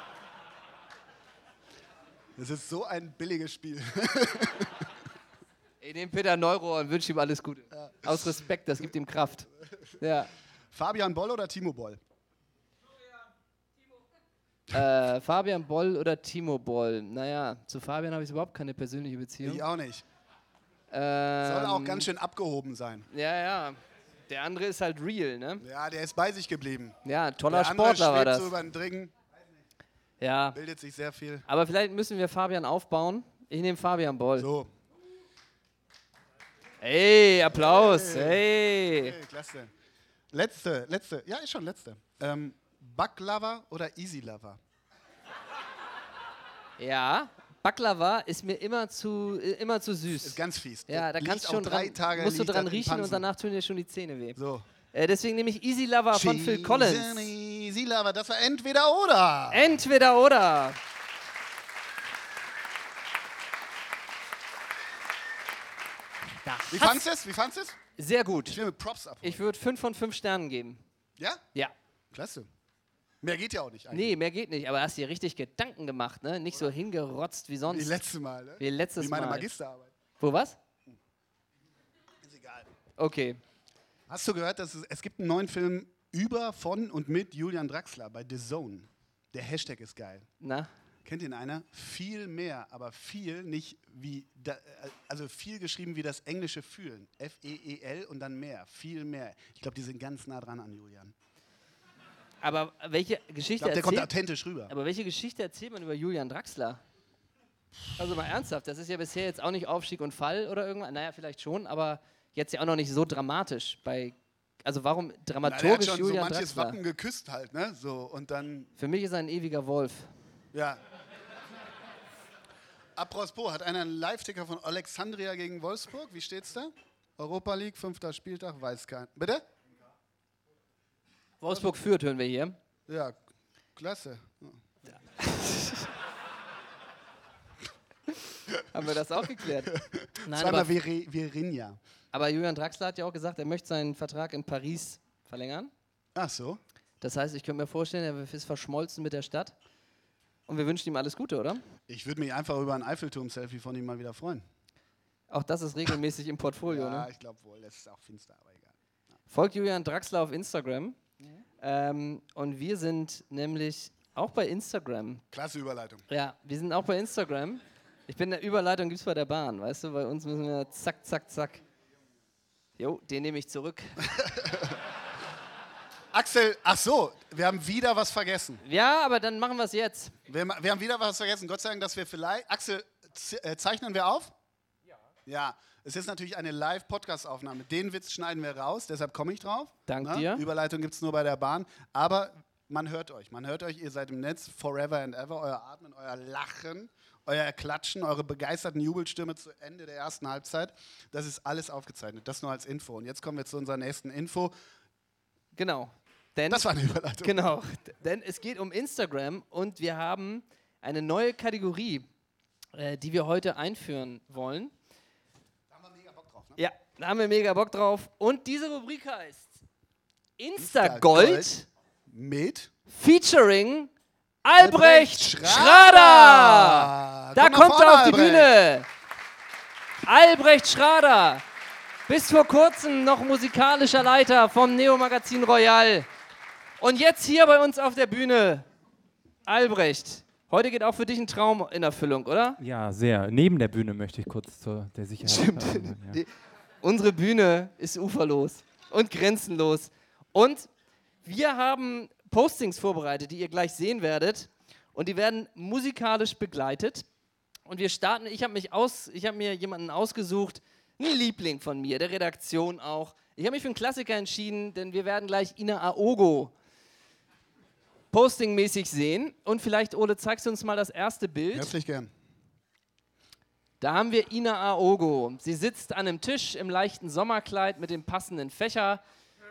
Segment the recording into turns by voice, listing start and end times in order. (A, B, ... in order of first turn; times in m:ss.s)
0:02.4-0:04.9 A
0:05.8-0:09.5 B
0:07.8-0:08.2 A
0:10.0-0:10.3 B
0:10.7-0:12.0 A
0:14.7-0:19.6 B
0:19.4-0:20.0 A
0:20.9-0:22.1 B
0:21.4-0:23.1 A
0:23.1-0:25.6 B
0:25.6-0:27.0 A
0:27.0-0:28.5 B
0:27.5-0:29.2 A
0:30.2-0:30.6 B
0:30.5-0:31.4 A
0:31.5-0:34.5 B
0:34.4-0:34.7 A
0:36.8-0:39.2 B
0:37.5-0:39.7 A
0:40.3-0:44.6 A
0:46.8-0:54.4 B
0:50.1-0:53.2 A
0:54.4-0:54.6 A
0:54.9-0:57.3 B
0:56.1-0:59.8 A
0:59.5-1:00.8 B
1:06.4-1:07.0 B
1:06.7-1:07.8 A
1:08.0-1:08.6 B
1:08.5-1:09.4 A
1:09.2-1:10.8 B
1:11.2-1:11.4 A
1:12.1-1:12.5 A
1:13.2-1:14.1 A
1:13.9-1:18.0 B
1:17.7-1:19.9 A
1:18.6-1:19.5 B
1:20.2-1:20.6 B
1:22.2-1:22.7 A
1:23.0-1:23.4 B
1:24.1-1:30.3 A
1:30.4-1:30.7 B
1:31.0-1:41.1 A
1:42.4-1:44.1 B
1:43.6-1:44.7 A
1:44.7-1:46.8 B
1:48.0-1:56.8 B
1:55.4-1:58.7 A
1:58.8-2:00.1 B
2:00.5-2:00.8 A
2:03.0-2:09.4 A
2:11.4-2:12.6 B
2:12.9-2:13.2 A
2:13.8-2:14.6 A
2:15.2-2:15.9 B
2:18.7-2:19.7 B
2:19.4-2:21.8 A
2:20.2-2:20.7 B
2:22.1-2:25.7 B
2:26.1-2:26.6 A
2:27.0-2:29.5 B
2:30.5-2:31.6 B
2:31.9-2:34.4 A
2:35.3-2:37.1 B
2:36.7-2:38.7 A
2:39.3-2:41.0 B
2:41.6-2:45.2 B
2:45.3-2:46.0 A
2:46.1-2:51.6 B
2:52.8-2:54.0 B
2:54.0-2:54.8 A
2:56.1-2:58.6 A
2:58.6-3:00.1 B
3:00.3-3:04.3 A
3:05.2-3:24.5 A
3:09.9-3:10.4 B
3:25.5-3:26.6 B
3:26.5-3:27.4 A
3:27.2-3:32.0 B
3:32.8-3:34.7 B
3:35.7-3:36.6 A
3:36.6-3:39.6 B
3:40.4-3:41.7 B
3:40.6-3:41.5 A
3:42.1-3:42.7 A
3:42.9-3:43.9 B
3:44.4-3:48.9 B
3:44.6-3:48.5 A
3:50.0-3:51.4 B
3:52.1-3:56.1 B
3:56.8-3:58.7 B
3:59.4-4:02.6 B
4:02.6-4:06.2 C
4:05.2-4:06.3 B
4:06.8-4:10.7 B
4:11.2-4:17.1 B
4:17.7-4:26.5 B
4:28.1-4:31.7 B
4:31.5-4:32.1 A
4:33.8-4:39.0 B